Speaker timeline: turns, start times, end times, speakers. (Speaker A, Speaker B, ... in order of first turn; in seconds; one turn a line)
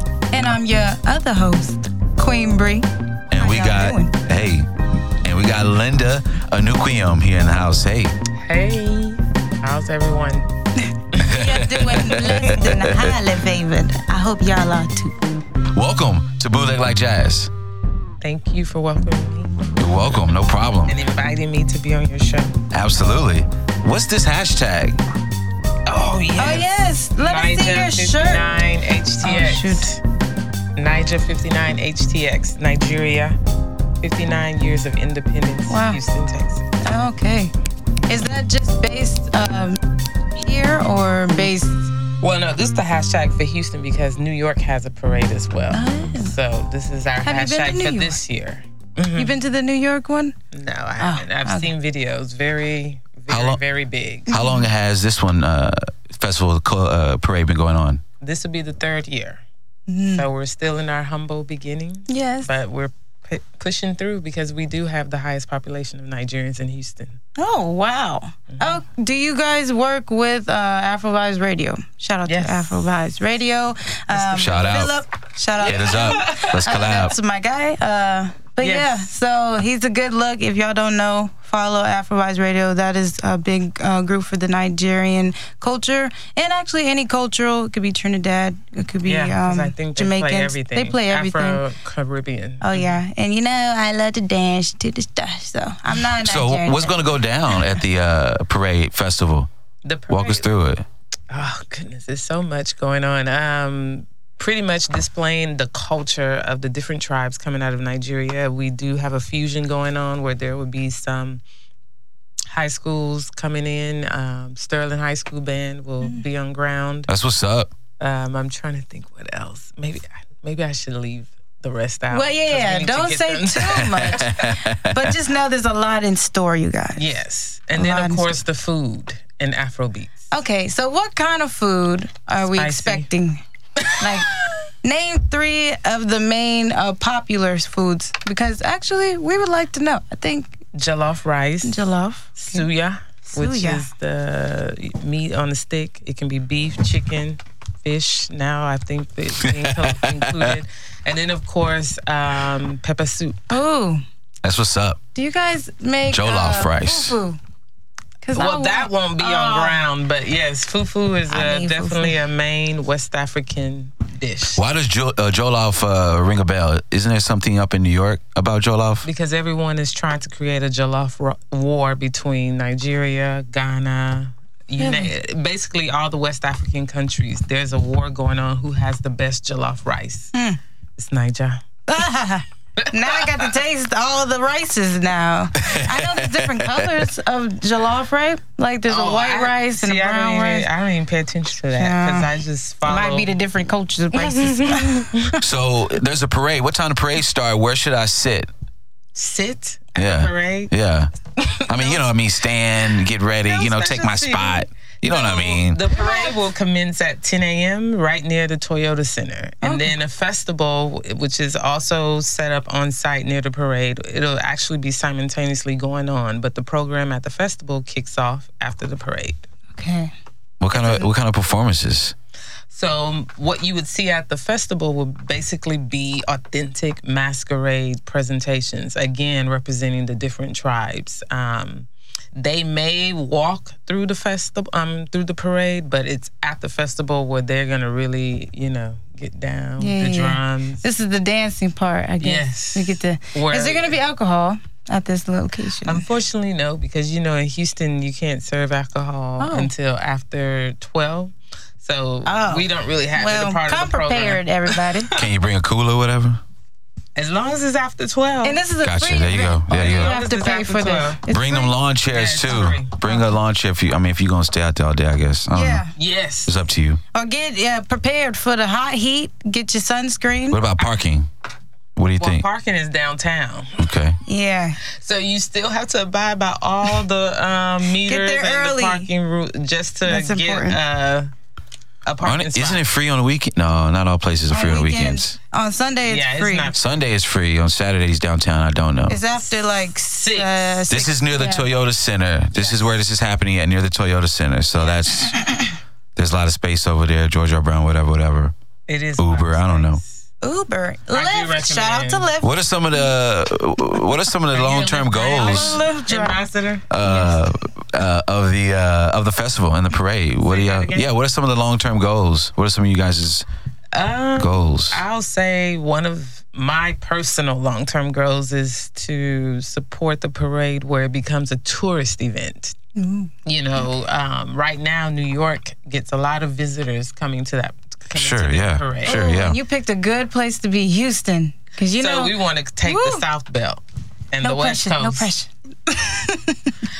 Speaker A: 0.3-4.1
Speaker B: 3.3-4.7
Speaker B: 5.2-8.1
Speaker C: 8.4-10.5
Speaker A: 11.2-15.2
Speaker B: 11.2-13.2
Speaker B: 15.7-17.5
Speaker C: 18.2-19.5
Speaker B: 19.8-21.0
Speaker C: 20.9-22.6
Speaker B: 22.7-25.0
Speaker C: 25.9-26.7
Speaker A: 26.4-28.4
Speaker C: 27.2-30.0
Speaker A: 29.2-29.9
Speaker C: 30.8-33.4
Speaker C: 34.0-36.7
Speaker A: 35.7-36.0
Speaker A: 36.8-37.5
Speaker A: 38.1-39.8
Speaker A: 40.4-41.9
Speaker C: 42.2-49.3
Speaker A: 45.7-46.3
Speaker A: 47.2-48.2
Speaker A: 49.1-50.3
Speaker C: 50.5-54.3
Speaker A: 51.0-51.7
Speaker B: 53.3-53.6
Speaker B: 54.3-58.0
Speaker A: 54.3-54.7
Speaker C: 58.2-59.4
Speaker A: 59.9-60.2
Speaker C: 60.1-67.2
Speaker A: 62.1-62.5
Speaker A: 67.4-91.6
Speaker C: 68.5-68.8
Speaker C: 72.2-72.9
Speaker C: 74.2-74.5
Speaker B: 74.3-74.9
Speaker C: 75.6-76.7
Speaker B: 75.6-77.1
Speaker C: 78.6-79.0
Speaker C: 89.0-93.0
Speaker A: 92.6-97.1
Speaker B: 96.2-99.5
Speaker C: 99.8-100.5
Speaker B: 100.1-100.8
Speaker C: 101.3-111.4
Speaker C: 112.5-117.1
Speaker B: 117.1-117.7
Speaker C: 118.0-124.3
Speaker A: 122.1-127.1
Speaker B: 123.8-125.2
Speaker C: 126.9-130.3
Speaker A: 127.7-128.3
Speaker A: 130.3-133.4
Speaker C: 132.5-133.1
Speaker C: 133.8-134.6
Speaker A: 134.0-134.3
Speaker A: 134.8-140.6
Speaker C: 140.7-153.6
Speaker A: 141.6-142.7
Speaker A: 143.3-143.8
Speaker B: 149.4-150.6
Speaker A: 153.5-154.0
Speaker B: 154.4-155.0
Speaker A: 155.1-157.4
Speaker B: 156.1-157.2
Speaker A: 158.2-159.8
Speaker C: 158.3-164.6
Speaker A: 161.3-162.2
Speaker B: 164.5-169.1
Speaker C: 169.0-180.3
Speaker A: 174.8-175.1
Speaker A: 180.3-180.6
Speaker C: 181.0-181.6
Speaker A: 181.9-190.7
Speaker C: 182.8-183.5
Speaker B: 185.6-186.9
Speaker C: 188.9-193.3
Speaker A: 191.8-192.3
Speaker A: 192.8-195.3
Speaker C: 194.1-195.3
Speaker B: 195.4-198.5
Speaker C: 199.1-200.7
Speaker B: 199.9-201.1
Speaker C: 201.4-202.1
Speaker B: 201.7-205.8
Speaker C: 203.4-219.4
Speaker A: 205.9-206.4
Speaker A: 209.6-209.9
Speaker A: 219.7-220.1
Speaker B: 220.6-222.1
Speaker C: 220.7-221.1
Speaker C: 222.7-240.8
Speaker A: 239.8-246.0
Speaker C: 242.2-244.0
Speaker C: 245.8-255.3
Speaker A: 249.4-249.7
Speaker A: 252.2-255.1
Speaker B: 255.1-256.4
Speaker C: 257.1-258.6
Speaker A: 258.4-261.7
Speaker B: 258.8-260.1
Speaker C: 259.7-261.2
Speaker B: 261.3-265.8
Speaker C: 262.1-263.2
Speaker A: 265.5-265.9
Speaker C: 265.9-266.5
Speaker B: 266.4-267.0
Speaker A: 267.1-270.6
Speaker B: 270.5-271.3
Speaker B: 271.9-272.4
Speaker C: 272.2-273.8
Speaker B: 273.8-274.2
Speaker A: 274.2-274.8
Speaker C: 275.0-281.3
Speaker A: 278.0-279.1
Speaker A: 280.1-280.8
Speaker C: 282.0-282.8
Speaker B: 282.2-285.4
Speaker A: 284.5-286.7
Speaker C: 286.0-286.9
Speaker B: 286.7-289.2
Speaker A: 289.1-291.7
Speaker C: 289.4-290.9
Speaker B: 290.9-295.4
Speaker C: 292.5-292.9
Speaker A: 295.3-295.7
Speaker B: 296.1-298.5
Speaker C: 298.9-300.2
Speaker B: 299.2-300.0
Speaker A: 300.4-303.0
Speaker C: 301.1-302.3
Speaker B: 302.4-305.8
Speaker C: 304.5-307.4
Speaker A: 305.4-306.4
Speaker B: 306.9-313.4
Speaker C: 310.4-311.1
Speaker C: 313.9-322.8
Speaker B: 314.4-315.0
Speaker A: 322.9-323.3
Speaker C: 323.4-329.2
Speaker B: 328.1-329.6
Speaker A: 329.0-333.2
Speaker C: 332.0-335.3
Speaker A: 334.4-336.8